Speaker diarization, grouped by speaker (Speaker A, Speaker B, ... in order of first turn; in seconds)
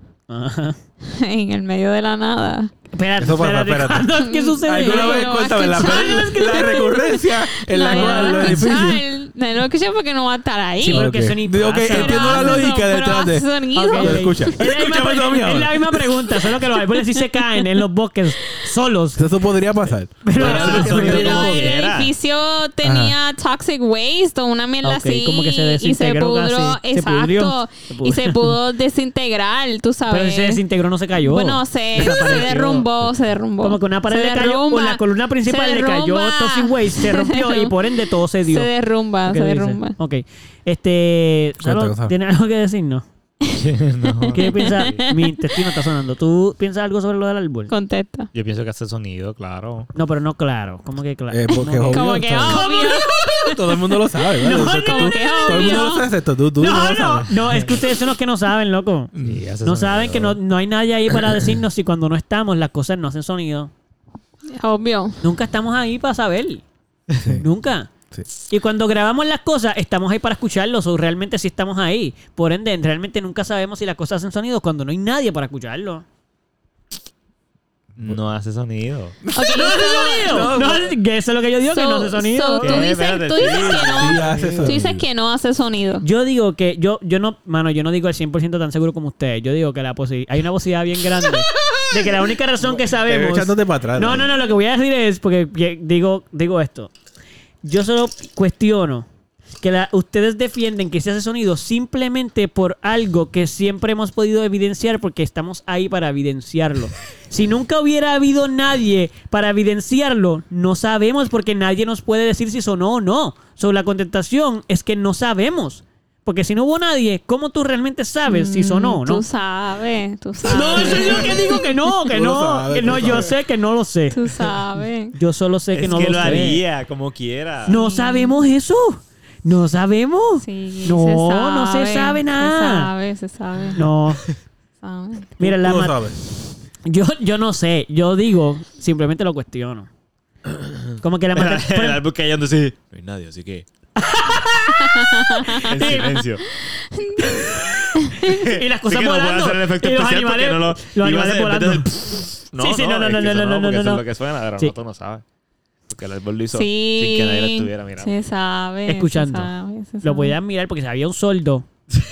Speaker A: 0.3-0.8, 2.9-6.9, 7.8-8.7, 10.8-12.7, 13.7-19.3, 20.2-21.7, 24.8-28.6, 30.1-38.7, 39.3-43.1, 44.3-47.7, 49.9-53.6, 54.4-56.0, 56.6-59.1, 59.6-63.7, 65.2-66.6, 67.2-67.9, 68.5-76.0, 79.5-82.9, 86.0-96.9, 97.6-99.1, 99.6-119.2, 120.5-124.3, 125.1-126.6, 127.7-132.9, 133.7-134.2, 135.4-136.0, 136.8-139.9, 141.0-142.0, 144.0-146.2, 147.2-154.0, 158.9-161.7
Speaker B: 1.1-2.7, 4.2-11.1, 11.9-14.4, 21.0-30.6, 31.2-37.8, 38.4-40.0, 44.1-45.5, 47.7-48.3, 51.8-53.6, 54.4-56.1, 64.5-65.2, 79.3-80.8, 81.7-86.0, 118.3-121.7, 124.1-125.2, 127.7-128.4, 130.4-133.9, 134.8-135.3, 144.9-146.1, 146.8-148.3, 156.5-160.4
Speaker C: 3.2-9.0, 10.9-16.3, 19.1-21.7, 22.8-23.2, 41.6-42.1, 51.3-57.7, 59.1-59.4, 67.2-67.5, 79.2-79.7, 80.3-80.9, 83.9-85.0, 92.6-94.3, 120.6-120.9, 122.1-123.4, 135.4-136.2
Speaker D: 20.4-22.1, 43.5-45.0, 48.3-49.9, 59.1-60.4, 78.0-79.2, 82.6-84.8, 125.7-127.8, 140.5-143.7, 145.5-146.4, 148.2-155.2, 155.9-158.2